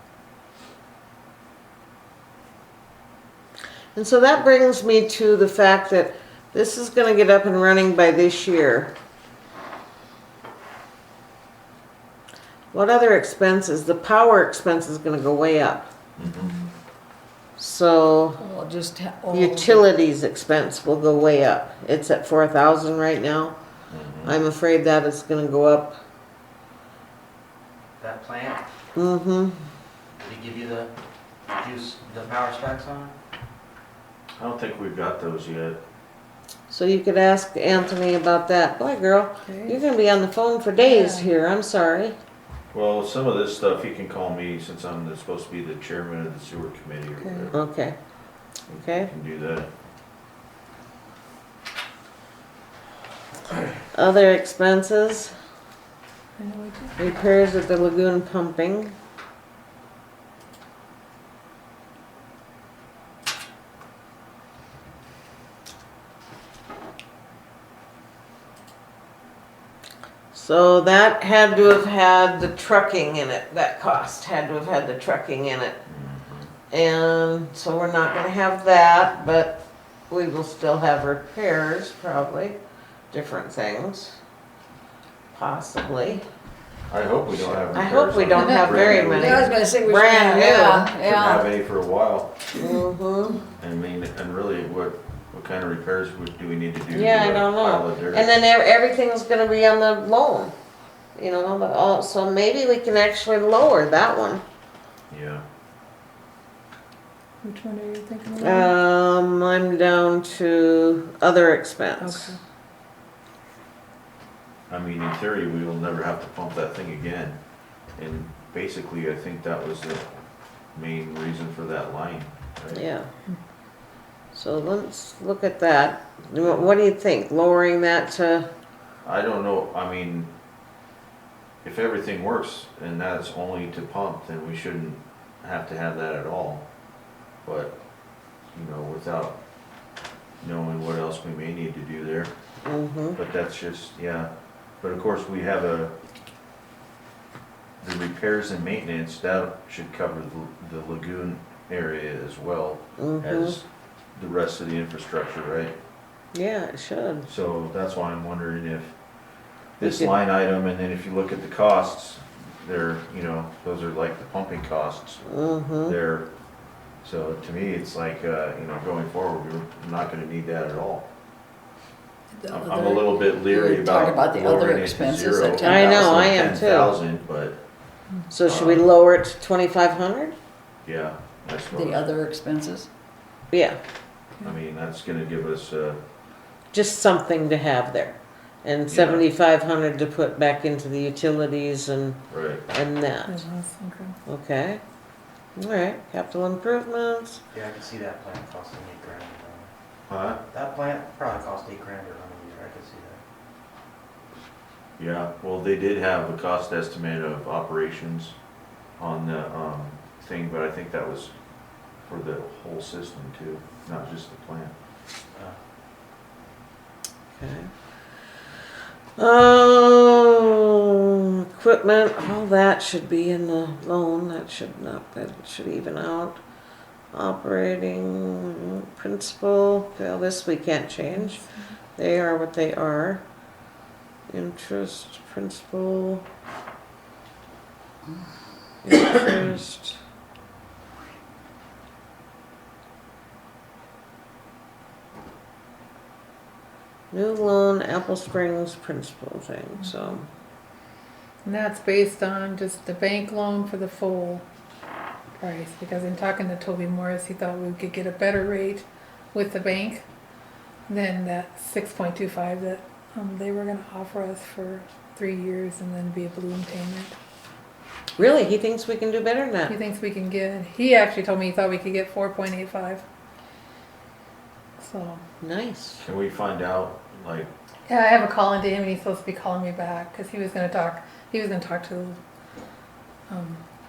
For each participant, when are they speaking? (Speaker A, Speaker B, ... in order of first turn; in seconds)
Speaker A: 4.0-8.9, 12.7-15.9, 17.6-18.4, 19.3-23.6, 24.2-26.0, 28.9-29.6, 36.7-42.2, 47.5-48.0, 48.7-49.1, 53.9-55.3, 57.0-59.0, 70.3-75.8, 76.7-82.6, 83.1-84.2, 85.3-86.2, 87.7-90.9, 92.6-93.5, 96.9-100.5, 101.2-104.4, 108.4-112.4, 122.7-123.1, 124.3-128.5, 142.7-143.2, 153.0-153.6, 156.3-157.3, 159.8-160.1, 165.3-165.9, 175.6-176.9, 178.3-180.3, 183.5-183.8, 186.7-193.4, 194.3-194.8, 195.6-197.4, 217.4-217.7, 219.2-226.4, 227.1-231.4, 232.0-233.2, 234.3-236.2, 238.8-240.0, 247.1-250.2, 268.2-269.8, 275.4-276.0
Speaker B: 16.2-16.6, 23.9-24.4, 34.4-35.8, 42.7-47.6, 49.0-49.7, 75.9-76.5, 86.9-89.6, 91.0-92.3, 93.6-98.3, 105.1-105.4, 114.7-117.4, 118.0-120.2, 120.7-122.8, 126.4-126.7, 129.0-130.3, 131.6-136.7, 137.4-137.8, 138.5-139.4, 140.4-142.3, 143.2-144.3, 144.8-145.9, 147.8-155.7, 157.3-158.9, 159.8-165.2, 165.9-166.3, 167.0-171.1, 172.5-177.6, 178.5-178.9, 180.8-182.1, 184.4-186.0, 188.9-189.3, 192.3-192.6, 200.1-200.4, 205.0-208.3, 209.0-211.3, 212.1-214.7, 276.0-277.5
Speaker C: 16.2-16.7, 39.5-39.8, 40.8-41.3, 47.2-47.5, 56.4-57.2, 88.4-88.8, 107.4-108.8, 112.0-112.4, 172.3-173.1, 193.3-194.2, 231.0-231.5, 251.4-254.4, 255.4-260.0, 260.9-267.1, 269.7-273.0, 274.8-275.2, 277.9-282.2, 283.3-283.6
Speaker D: 18.4-19.8, 88.8-91.5, 173.3-176.3, 181.7-182.9
Speaker E: 28.0-28.6, 30.2-30.9, 31.6-33.1, 197.5-199.7, 200.5-203.2